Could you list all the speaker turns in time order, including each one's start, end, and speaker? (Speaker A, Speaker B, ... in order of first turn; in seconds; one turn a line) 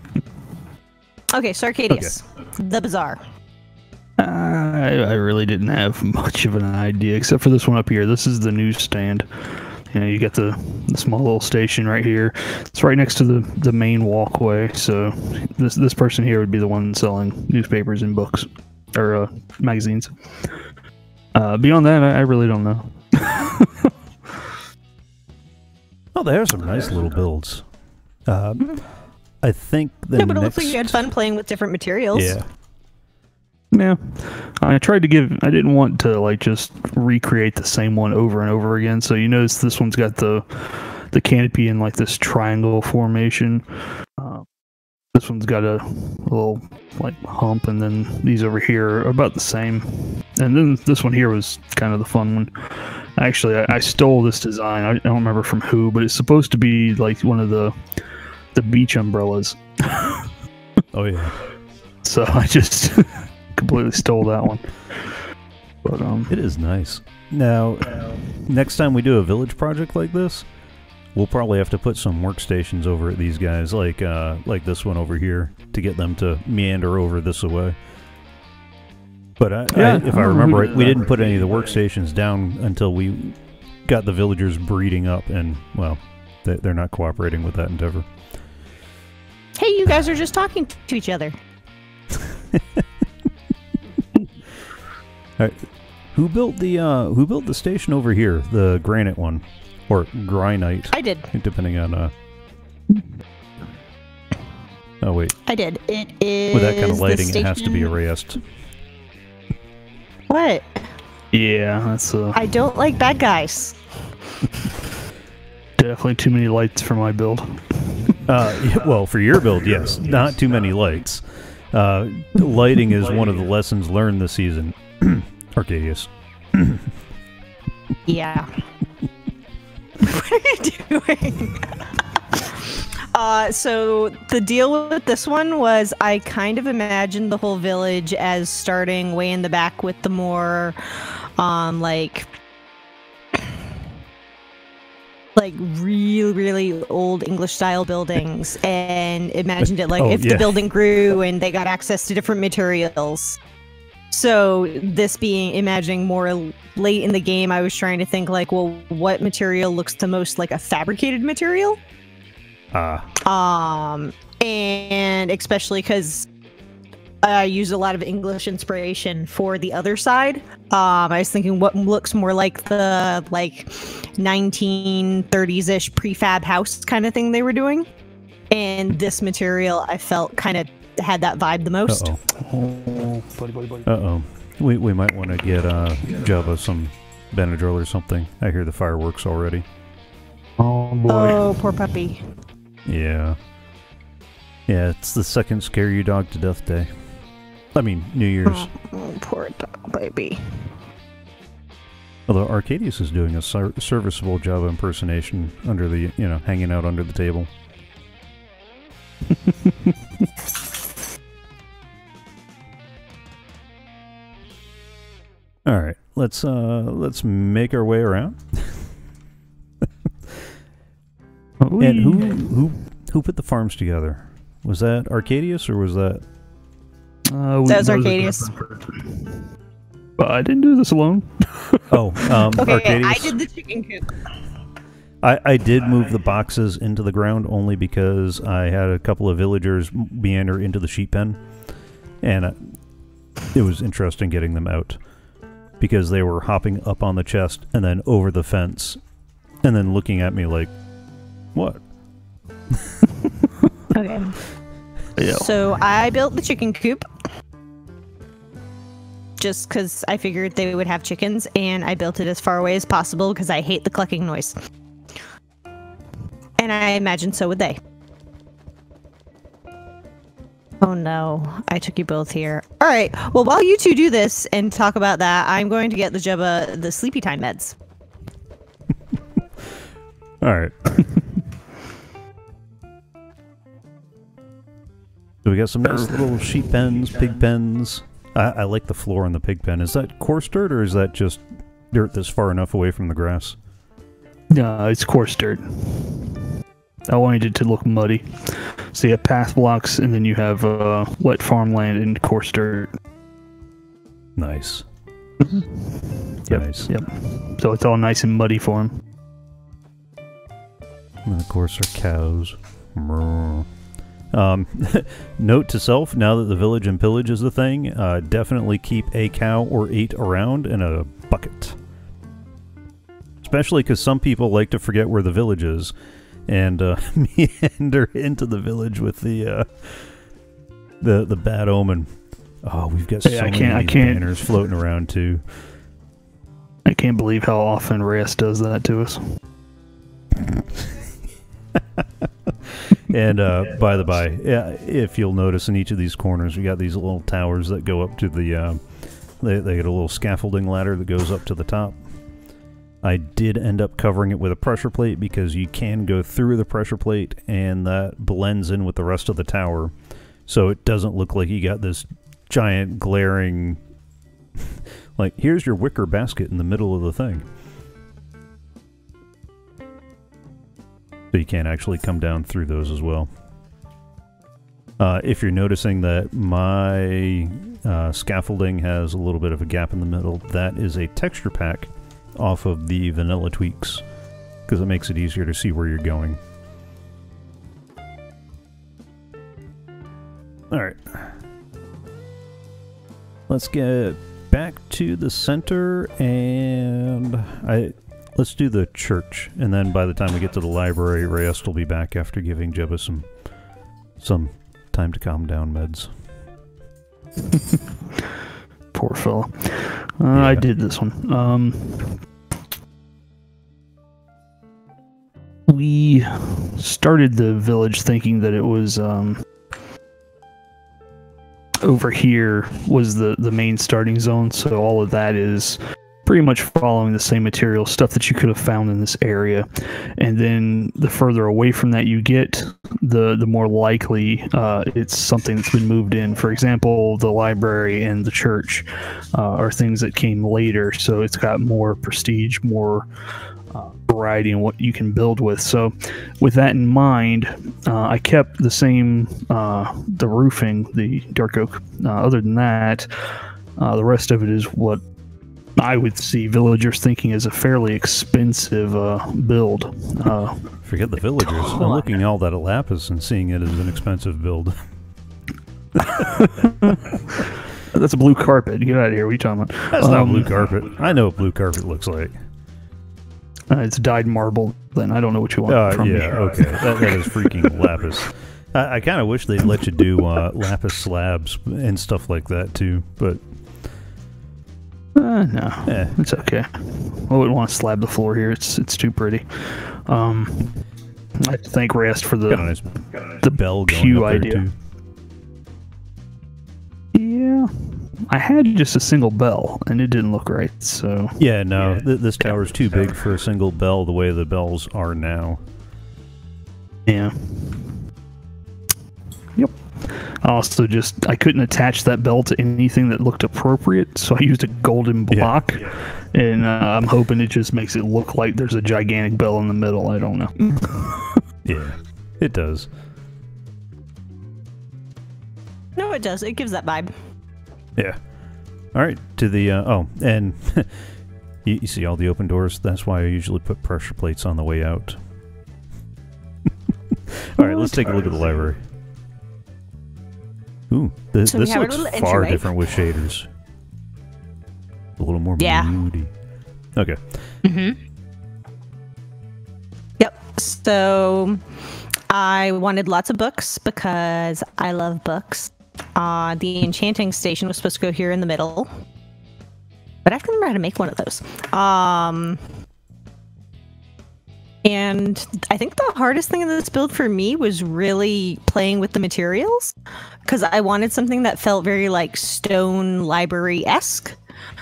Speaker A: 1.3-3.2
Speaker B: 4.2-20.6
Speaker B: 21.3-23.9
Speaker C: 26.1-27.6
Speaker C: 28.3-28.9
Speaker C: 29.4-31.1
Speaker A: 30.2-32.4
Speaker C: 32.1-32.5
Speaker B: 33.7-44.5
Speaker B: 45.1-60.4
Speaker C: 60.9-61.4
Speaker B: 62.0-65.3
Speaker B: 65.8-66.4
Speaker C: 66.3-70.5
Speaker C: 71.2-77.8
Speaker C: 79.4-88.1
Speaker B: 79.7-81.2
Speaker A: 89.6-91.4
Speaker C: 95.4-102.1
Speaker A: 100.9-101.3
Speaker C: 105.0-105.3
Speaker A: 105.5-107.9
Speaker C: 106.5-108.4
Speaker A: 110.3-110.9
Speaker B: 111.3-112.5
Speaker A: 112.3-113.8
Speaker B: 115.8-118.2
Speaker C: 118.3-126.9
Speaker A: 128.1-128.6
Speaker A: 130.0-140.8
Speaker A: 141.4-142.3
Speaker A: 145.4-153.4
Speaker C: 149.6-150.6
Speaker A: 154.1-161.8
Speaker C: 162.7-163.1
Speaker A: 163.2-166.3
Speaker A: 167.2-177.9
Speaker A: 178.5-182.1
Speaker C: 181.9-182.2
Speaker B: 182.3-183.9
Speaker C: 183.9-189.7
Speaker B: 190.6-191.5
Speaker A: 191.1-192.2
Speaker C: 192.9-193.4
Speaker C: 194.7-196.9
Speaker C: 197.8-198.7
Speaker A: 198.5-200.6
Speaker C: 202.3-207.5
Speaker C: 215.7-218.9
Speaker B: 221.6-222.4
Speaker C: 221.8-226.2
Speaker B: 227.3-229.5
Speaker A: 227.7-228.5
Speaker B: 230.2-232.4
Speaker C: 231.9-233.4
Speaker A: 232.6-234.2
Speaker C: 235.2-241.4
Speaker C: 242.2-242.6
Speaker C: 243.5-245.0
Speaker C: 245.8-249.0
Speaker C: 249.6-250.7
Speaker C: 251.6-251.8
Speaker A: 253.9-254.4
Speaker B: 255.2-255.5
Speaker A: 255.2-257.1
Speaker A: 259.4-264.6
Speaker A: 266.6-267.8
Speaker A: 270.8-277.8
Speaker C: 280.4-281.0
Speaker C: 285.4-293.6
Speaker B: 294.5-302.9
Speaker C: 304.4-304.9
Speaker B: 305.4-309.0
Speaker C: 306.5-307.0
Speaker C: 311.2-313.7
Speaker C: 314.3-321.8
Speaker C: 323.4-325.9
Speaker C: 326.5-330.2
Speaker C: 331.0-332.1
Speaker C: 332.6-335.4
Speaker B: 333.2-334.3
Speaker B: 336.9-339.2
Speaker C: 342.0-348.8
Speaker C: 349.4-352.0
Speaker C: 353.0-359.9
Speaker C: 360.5-363.8
Speaker C: 364.6-367.5
Speaker C: 371.3-373.3
Speaker C: 375.0-384.0
Speaker C: 384.7-386.4
Speaker C: 390.7-391.4
Speaker C: 393.5-403.4
Speaker C: 404.2-406.1
Speaker B: 407.5-408.2
Speaker B: 408.9-412.2
Speaker C: 410.3-410.7
Speaker B: 415.7-419.5
Speaker B: 421.8-443.1
Speaker B: 443.7-455.0
Speaker B: 455.8-460.8
Speaker C: 460.8-464.8
Speaker A: 461.6-462.0
Speaker C: 466.0-466.8
Speaker B: 466.6-470.7
Speaker C: 469.9-472.4
Speaker B: 473.7-477.9
Speaker C: 475.7-483.4
Speaker B: 485.2-490.8
Speaker C: 485.9-486.2
Speaker B: 491.4-492.7
Speaker C: 492.5-494.7
Speaker B: 493.3-494.7
Speaker B: 497.1-501.4
Speaker C: 501.4-505.6
Speaker B: 507.1-508.0
Speaker B: 509.6-521.4
Speaker C: 515.3-515.6
Speaker C: 521.6-522.9
Speaker A: 526.0-527.1
Speaker C: 528.9-535.2
Speaker C: 537.1-538.8
Speaker C: 540.9-543.5
Speaker A: 541.5-542.7
Speaker C: 545.2-546.3
Speaker A: 545.6-545.9
Speaker C: 547.0-547.4
Speaker A: 547.6-548.0
Speaker A: 550.2-551.6
Speaker A: 552.3-558.9
Speaker A: 560.2-562.6
Speaker A: 564.8-569.9
Speaker A: 570.5-574.4